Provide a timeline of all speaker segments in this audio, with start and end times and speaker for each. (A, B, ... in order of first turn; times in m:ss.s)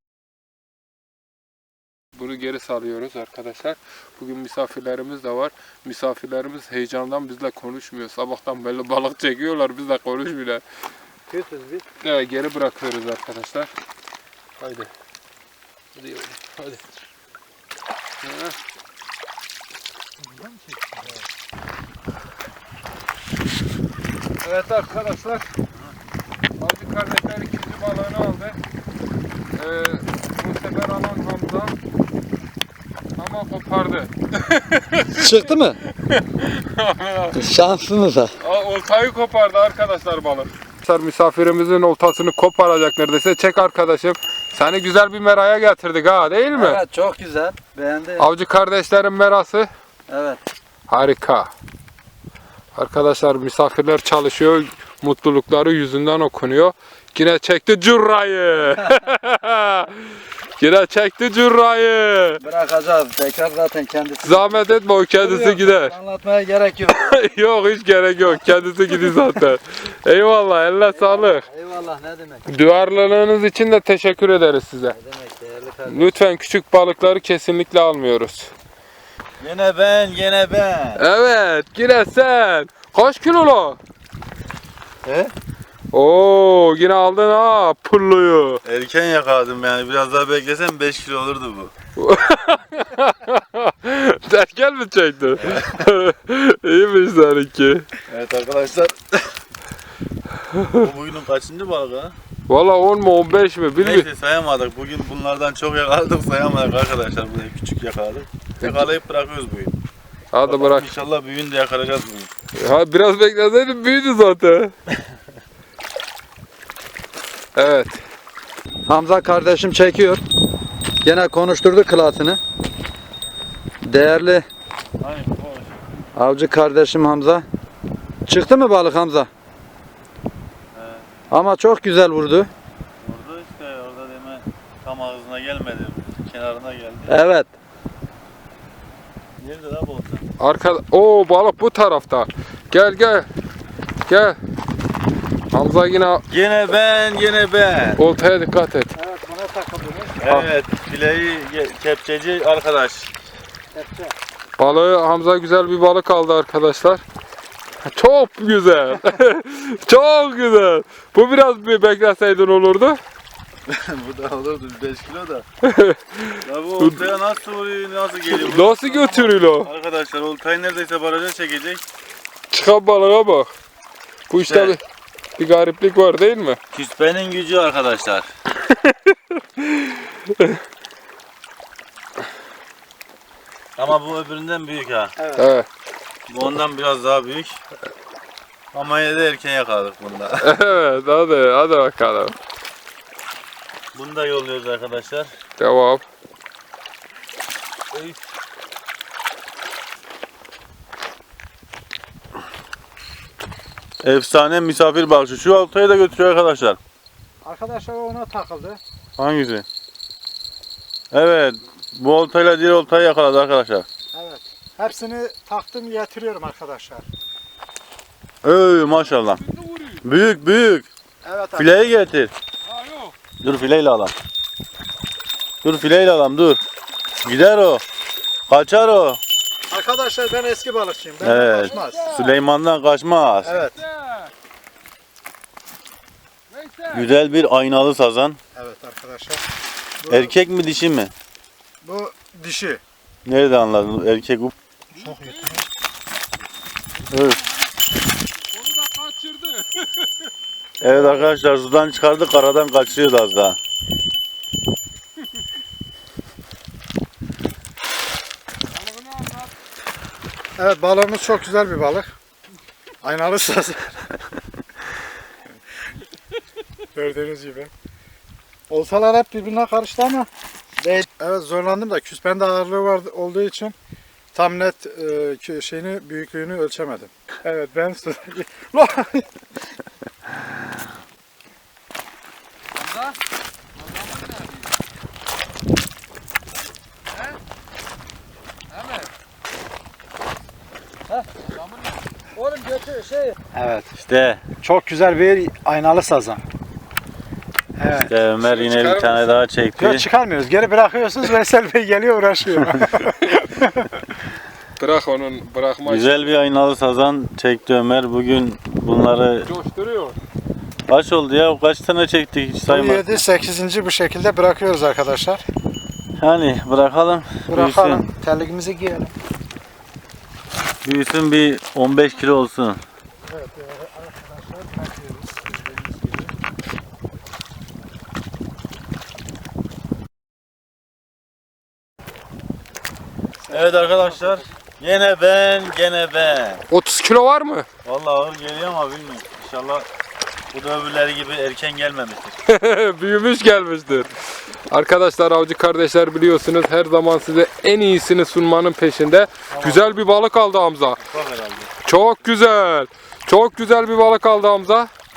0:02.2-0:10.6 A
0:11.3-0:11.9 B
0:12.0-0:13.7 A
0:14.6-0:14.9 A
0:16.0-0:16.8 A
0:18.2-0:18.6 A
0:24.4-0:25.5 A
0:26.6-0:28.6 A
0:29.6-0:31.7 A
0:33.2-0:35.4 A
0:35.1-0:35.8 B
0:36.0-0:37.5 A
0:37.4-0:38.4 B
0:38.4-0:46.8 A
0:46.5-0:48.3 B
0:48.2-0:49.7 A
0:50.1-0:50.4 B
0:50.9-0:51.5 A
0:52.8-1:02.4 A
1:02.4-1:04.6 B
1:04.2-1:06.0 A
1:05.2-1:07.0 B
1:06.9-1:11.4 A
1:10.9-1:12.5 B
1:12.5-1:15.0 A
1:14.9-1:16.2 B
1:15.9-1:18.5 A
1:19.4-1:21.0 C
1:21.0-1:23.8 A
1:25.0-1:25.3 C
1:25.9-1:28.6 A
1:28.6-1:31.7 C
1:32.0-1:37.9 A
1:38.1-1:39.3 C
1:40.5-1:40.9 A
1:40.8-1:42.2 C
1:42.5-1:44.1 A
1:43.8-1:49.7 C
1:48.6-1:48.9 A
1:50.3-1:50.9 A
1:50.4-1:52.3 C
1:52.5-1:54.7 A
1:57.6-1:58.0 A
1:58.9-2:00.2 B
2:01.0-2:02.4 B
2:03.8-2:04.5 B
2:05.0-2:05.9 C
2:06.2-2:07.5 B
2:08.3-2:09.3 B
2:10.7-2:11.1 C
2:11.3-2:12.5 B
2:13.0-2:17.2 C
2:17.1-2:17.5 B
2:19.4-2:20.2 C
2:20.4-2:23.3 A
2:24.1-2:24.4 A
2:25.5-2:26.2 A
2:26.3-2:28.0 C
2:28.0-2:28.9 A
2:29.0-2:30.5 D
2:30.2-2:33.1 C
2:33.7-2:34.2 D
2:34.6-2:37.0 A
2:37.8-2:43.0 A
2:43.7-2:45.5 C
2:45.6-2:47.0 A
2:46.4-2:51.8 C
2:48.3-2:49.7 A
2:52.5-2:53.5 A
2:54.3-2:54.8 A
2:54.4-2:54.8 C
2:55.4-2:56.6 A
2:56.7-2:58.3 C
2:58.7-3:00.6 A
3:03.8-3:05.1 C
3:05.2-3:05.5 D
3:05.4-3:05.7 A
3:06.3-3:07.6 C
3:08.7-3:10.4 C
3:10.4-3:12.4 A
3:14.0-3:15.3 C
3:15.6-3:16.0 A
3:24.0-3:26.8 C
3:27.4-3:28.8 D
3:29.2-3:29.6 C
3:31.1-3:33.9 C
3:34.1-3:37.1 D
3:38.4-3:39.4 C
3:39.4-3:40.0 A
3:40.0-3:40.9 C
3:41.2-3:41.9 D
3:41.6-3:42.3 C
3:42.7-3:43.1 A
3:43.4-3:44.1 C
3:45.6-3:46.6 C
3:47.2-3:47.8 C
3:48.5-3:49.2 C
3:49.7-3:52.1 D
3:51.2-3:53.5 C
3:51.3-3:52.4 A
3:53.4-3:53.8 D
3:53.6-3:54.3 A
3:56.5-3:57.1 A
3:56.9-3:58.4 C
3:58.5-3:59.4 D
4:00.0-4:00.4 D
4:00.1-4:01.1 C
4:01.8-4:02.8 D
4:03.2-4:04.5 C
4:05.0-4:05.6 A
4:05.0-4:05.6 D
4:07.1-4:07.4 C
4:08.5-4:10.1 A
4:10.8-4:13.6 C
4:18.7-4:19.5 A
4:20.6-4:22.1 D
4:23.0-4:24.2 D
4:26.9-4:27.7 D
4:28.7-4:30.3 D
4:30.8-4:33.8 D
4:34.3-4:39.3 D
4:42.8-4:43.1 B
4:43.9-4:44.5 A
4:48.7-4:49.1 A
4:51.1-4:51.4 B
4:52.3-4:53.4 B
4:53.5-4:53.9 D
4:54.0-4:54.4 C
4:54.6-4:56.4 D
4:57.8-4:58.1 D
4:58.1-5:00.1 C
4:58.4-4:59.4 A
4:59.8-5:03.9 D
5:03.2-5:03.5 A
5:04.8-5:06.3 A
5:05.8-5:09.5 C
5:09.4-5:10.2 A
5:10.9-5:13.2 C
5:12.7-5:15.4 D
5:16.2-5:18.1 C
5:17.5-5:19.2 D
5:20.8-5:22.8 C
5:23.3-5:26.3 D
5:33.5-5:36.6 C
5:33.5-5:34.0 D
5:36.7-5:37.7 A
5:37.8-5:39.9 C
5:40.5-5:42.4 C
5:42.5-5:44.2 A
5:44.7-5:51.0 A
5:49.6-5:50.0 C
5:51.0-5:51.7 C
5:51.8-5:54.9 A